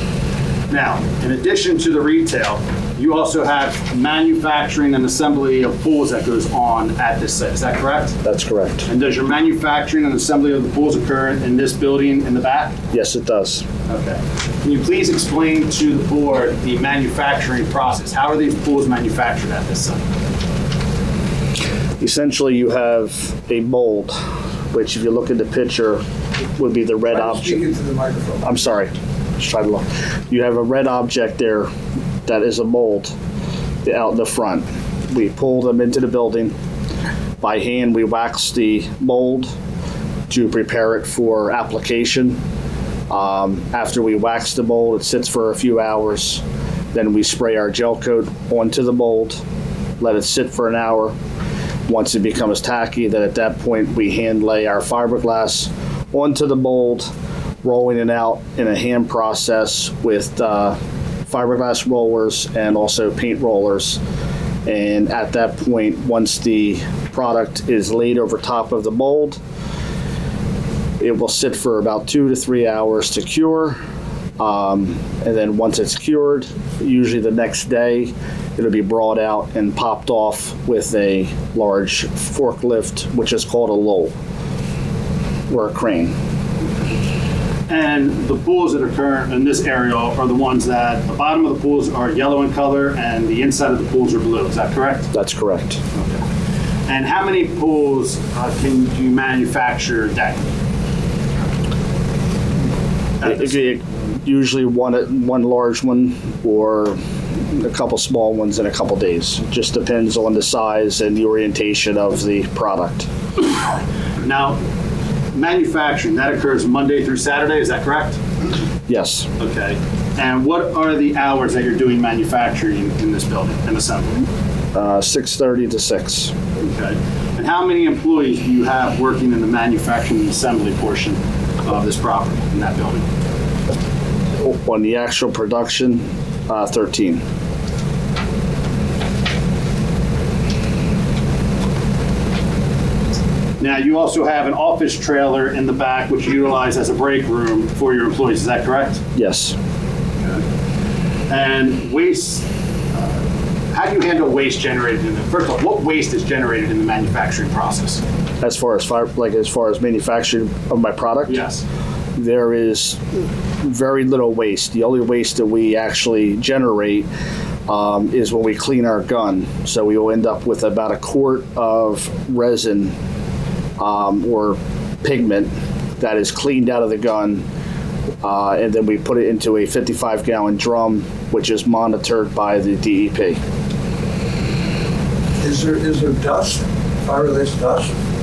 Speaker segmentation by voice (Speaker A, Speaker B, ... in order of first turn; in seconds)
Speaker A: 0.7-8.2, 8.9-12.8, 13.9-20.0, 87.7-95.1, 95.9-96.2, 96.9-100.5, 103.2-103.5, 114.2-114.6, 115.3-118.2, 119.4-124.3, 126.6-133.0, 143.6-149.0, 151.3-158.0, 161.3-161.6
Speaker B: 8.2-8.9, 12.9-13.6, 22.0-24.2, 24.7-26.0, 26.6-27.6, 28.4-31.7, 32.2-33.1, 33.8-36.5, 37.4-39.5, 40.3-42.4, 43.1-46.4, 46.9-49.4, 50.0-51.1, 51.9-57.1, 57.6-64.0, 64.7-69.4, 71.0-73.8, 74.4-84.1, 85.5-86.1, 95.1-95.8, 103.2-107.0, 107.5-113.1, 118.9-119.3, 124.7-126.3, 134.4-137.2, 149.1-149.6, 158.4-161.4, 162.1-163.0, 163.6-167.1, 167.7-172.9, 173.8-177.4, 178.2-183.4
Speaker C: 27.1-28.5, 185.4-187.9